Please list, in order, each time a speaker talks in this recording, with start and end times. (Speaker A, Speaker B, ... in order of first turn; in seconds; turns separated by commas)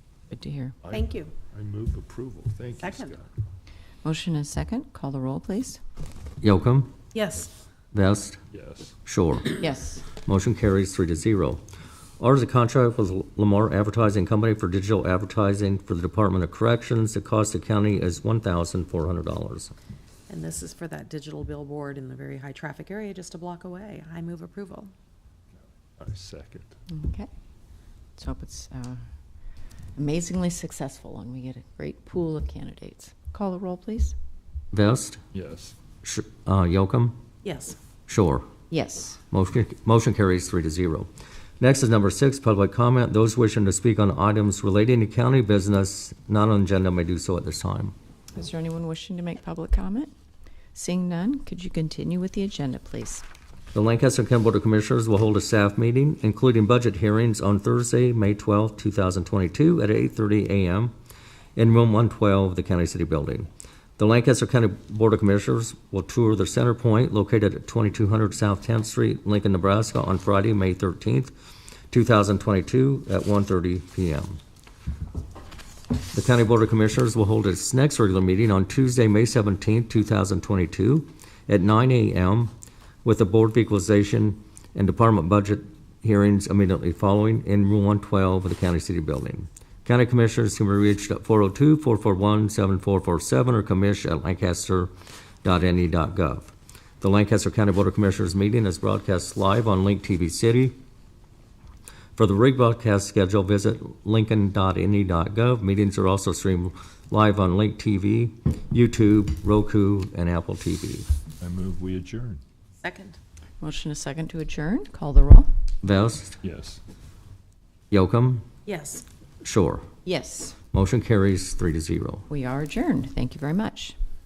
Speaker A: 0.3-0.8, Speaker B: 0.8-3.3, Speaker C: 0.9-1.3, Speaker C: 2.8-3.1, Speaker A: 4.0-5.8, Speaker D: 6.4-6.9, Speaker C: 7.1-7.5, Speaker D: 7.9-8.4, Speaker B: 8.5-8.9, Speaker D: 9.1-9.6, Speaker A: 9.6-10.0, Speaker D: 10.2-11.6, Speaker D: 12.2-19.7, Speaker C: 20.3-24.9, Speaker B: 26.0-26.7, Speaker A: 26.9-27.3, Speaker A: 28.2-29.0, Speaker A: 30.0-34.1, Speaker D: 34.7-35.2, Speaker B: 35.3-35.8, Speaker D: 36.0-37.2, Speaker C: 37.4-37.8, Speaker D: 38.1-38.5, Speaker A: 38.7-39.2, Speaker D: 39.3-41.1, Speaker D: 41.6-47.9, Speaker A: 48.3-50.1, Speaker A: 50.7-53.2, Speaker D: 53.7-60.9, Speaker D: 61.6-71.3, Speaker D: 71.9-74.4, Speaker D: 76.1-82.5, Speaker D: 83.0-94.9, Speaker D: 95.4-100.8, Speaker D: 102.2-111.1, Speaker B: 111.4-112.4, Speaker C: 112.8-113.2, Speaker A: 113.6-115.5, Speaker D: 115.8-116.4, Speaker B: 116.4-116.8, Speaker D: 117.9-118.5, Speaker C: 118.7-119.0, Speaker D: 119.4-119.9, Speaker A: 120.1-120.6, Speaker D: 120.7-122.3, Speaker A: 122.3-124.0